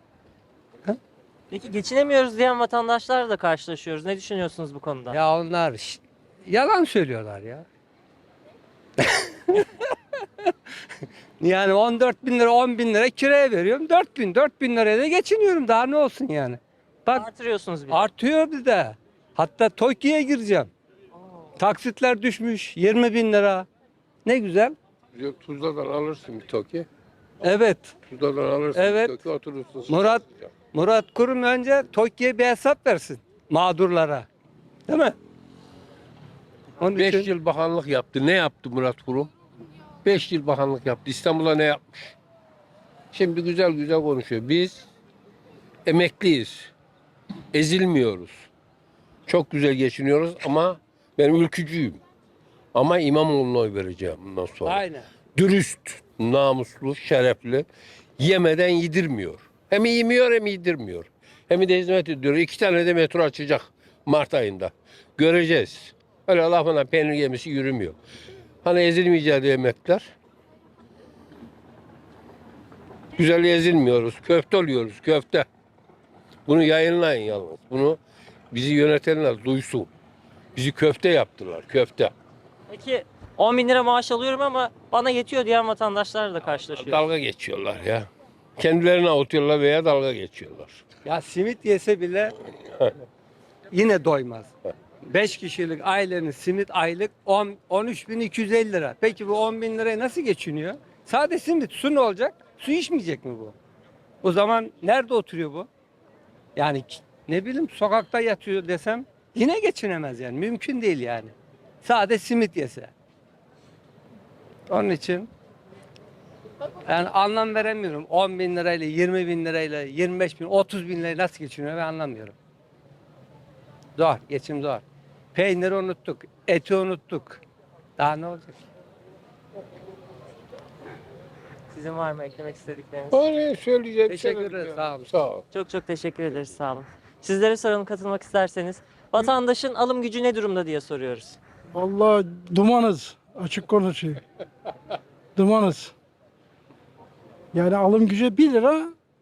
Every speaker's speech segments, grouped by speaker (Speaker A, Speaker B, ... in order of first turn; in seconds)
Speaker A: 1.5-5.2, 17.1-18.0, 82.7-87.0, 131.7-133.2, 135.5-141.4
Speaker B: 5.1-7.6, 9.0-10.5, 11.4-17.2, 17.9-20.7, 21.6-23.7, 24.2-24.8, 27.4-27.9, 28.7-29.1, 29.9-34.2, 34.9-35.1, 36.8-37.3, 54.6-55.0, 91.0-92.3, 93.7-94.5, 95.0-103.5, 104.2-105.7, 106.5-112.9, 114.7-115.3, 116.8-122.3, 124.0-124.8, 125.3-127.4, 128.0-128.6, 134.1-135.2
Speaker C: 25.1-26.9, 28.1-30.3, 37.0-39.3, 40.0-42.1, 43.1-44.9, 45.8-46.7, 47.5-48.5, 49.3-52.0, 52.7-54.8, 55.3-57.6, 58.2-68.0, 68.6-70.1, 73.1-75.5, 76.5-78.0, 78.5-79.9, 80.5-82.1, 86.8-90.8, 133.1-135.4
Speaker D: 141.7-144.2, 145.3-145.9, 147.5-148.9